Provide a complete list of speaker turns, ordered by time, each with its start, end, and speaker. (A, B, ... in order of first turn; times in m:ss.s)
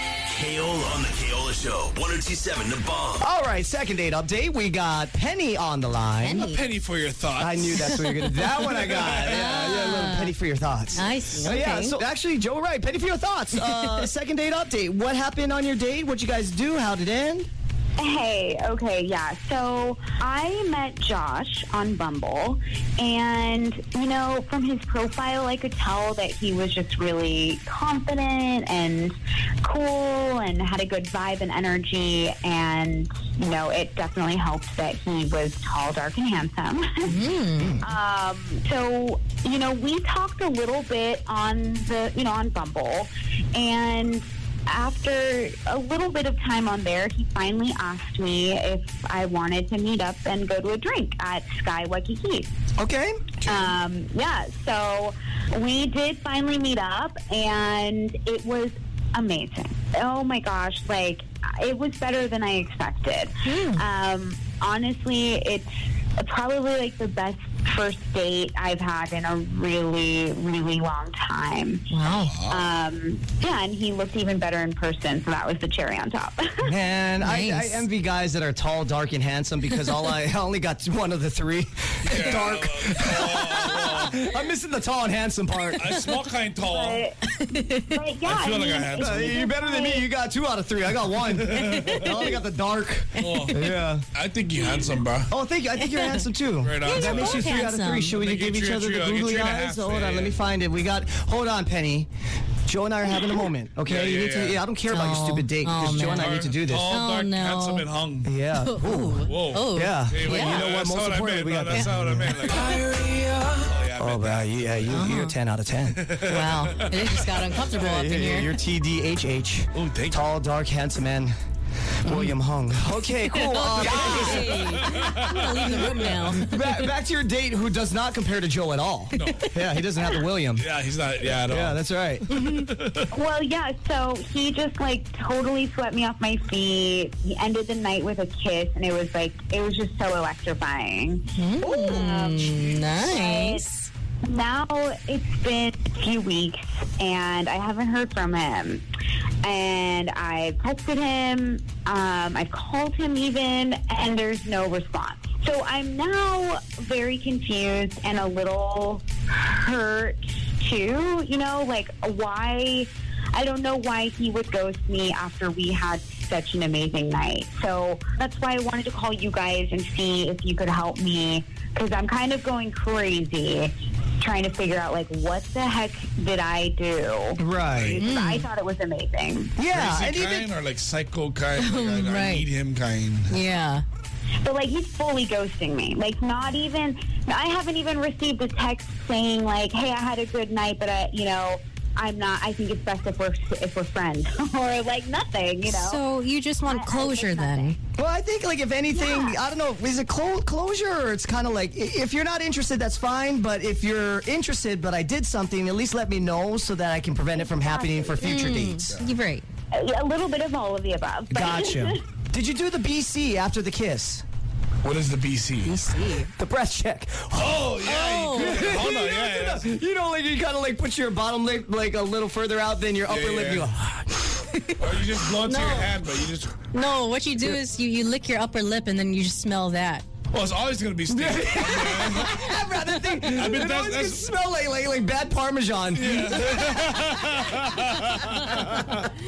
0:00.3-0:03.2 A
0:03.2-0:06.5 B
0:06.2-0:06.6 C
0:06.4-0:07.8 D
0:07.4-0:17.5 B
0:07.8-0:08.5 C
0:08.6-0:09.8 D
0:09.4-0:10.3 C
0:11.0-0:12.0 C
0:13.7-0:14.0 C
0:18.0-0:37.2 E
0:37.0-0:37.8 C
0:37.8-0:52.5 E
0:52.8-0:53.6 B
0:53.4-1:11.9 E
1:03.4-1:03.8 C
1:11.9-1:12.4 C
1:12.2-1:12.7 D
1:12.5-1:16.7 E
1:16.6-1:25.9 B
1:17.2-1:17.8 C
1:22.0-1:24.3 D
1:25.8-1:27.0 D
1:26.6-1:30.0 E
1:27.4-1:28.0 C
1:28.2-1:29.4 D
1:28.9-1:34.0 B
1:31.4-1:32.1 D
1:31.6-1:32.4 C
1:33.2-1:35.3 D
1:33.2-1:33.6 C
1:35.3-1:42.1 B
1:35.8-1:36.3 C
1:36.6-1:37.5 D
1:36.8-1:38.2 C
1:38.1-1:40.4 D
1:42.7-1:47.0 B
1:43.8-1:44.6 D
1:44.9-1:47.9 C
1:46.0-1:48.3 D
1:48.2-1:52.3 B
1:48.6-1:50.7 C
1:49.3-1:55.0 D
1:51.7-1:52.7 C
1:52.8-1:53.6 A
1:54.0-1:56.0 B
1:54.9-1:55.4 C
1:55.9-1:57.6 D
1:56.3-1:58.5 C
1:57.7-2:01.3 B
1:59.8-2:00.4 D
2:02.0-2:04.8 B
2:02.1-2:02.4 C
2:03.2-2:06.9 C
2:03.8-2:06.1 D
2:06.4-2:10.7 B
2:09.1-2:09.5 D
2:10.6-2:13.1 D
2:11.4-2:12.2 B
2:13.1-2:23.6 E
2:21.4-2:23.9 C
2:24.2-2:28.8 E
2:29.4-2:59.5 E
2:57.4-2:58.0 B
2:57.8-2:58.0 D
2:58.0-2:58.5 C
2:59.6-3:00.5 B
2:59.7-3:03.4 D
3:01.6-3:02.5 C
3:03.3-3:03.8 C
3:04.4-3:16.0 E
3:15.6-3:17.8 C
3:16.6-3:17.8 E
3:18.0-3:29.0 B
3:18.9-3:19.4 E
3:27.6-3:28.2 E
3:28.2-3:29.5 C
3:29.7-3:32.0 E
3:31.3-3:34.2 B
3:34.8-3:35.8 D
3:35.6-3:36.3 C
3:36.3-3:37.8 B
3:37.4-3:39.7 D
3:37.8-3:38.8 C
3:38.4-3:44.4 B
3:43.1-3:43.7 D
3:44.8-3:46.7 D
3:45.4-3:46.0 C
3:46.7-3:50.1 C
3:50.3-3:52.3 D
3:51.1-3:57.6 B
3:53.3-3:54.3 D
3:56.0-3:59.1 D